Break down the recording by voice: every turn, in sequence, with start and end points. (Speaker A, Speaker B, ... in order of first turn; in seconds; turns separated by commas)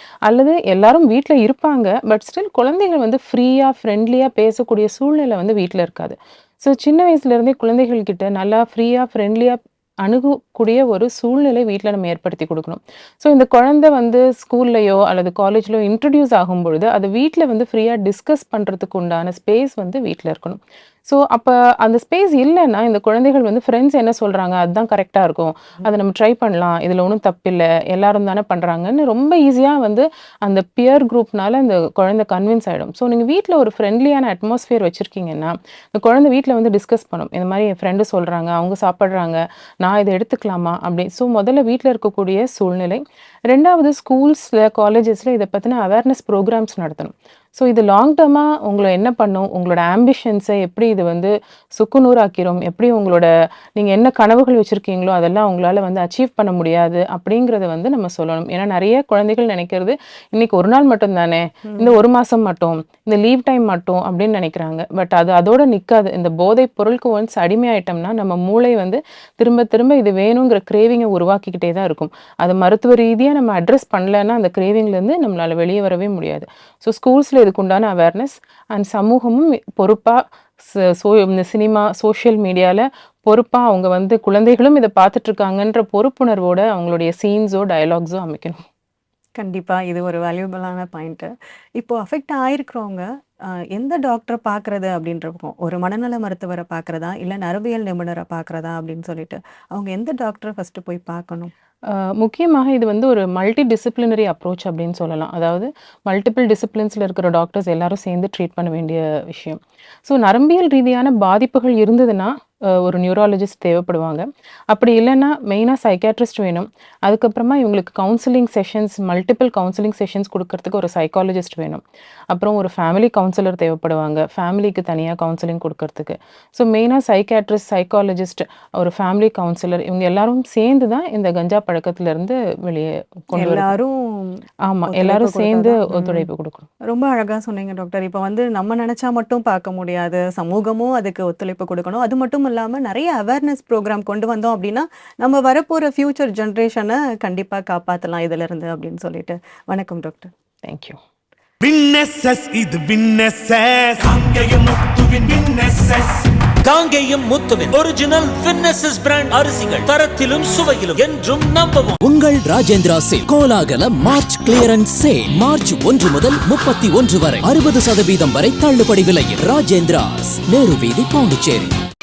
Speaker A: 0.3-88.6, Speaker B: 61.7-62.0, Speaker B: 89.4-93.0, Speaker B: 93.7-101.5, Speaker A: 101.9-112.3, Speaker A: 112.8-121.8, Speaker A: 122.3-133.7, Speaker B: 133.3-136.2, Speaker A: 134.7-136.7, Speaker B: 136.9-150.3, Speaker A: 150.7-151.0, Speaker C: 151.6-156.3, Speaker D: 156.6-162.0, Speaker E: 162.0-171.8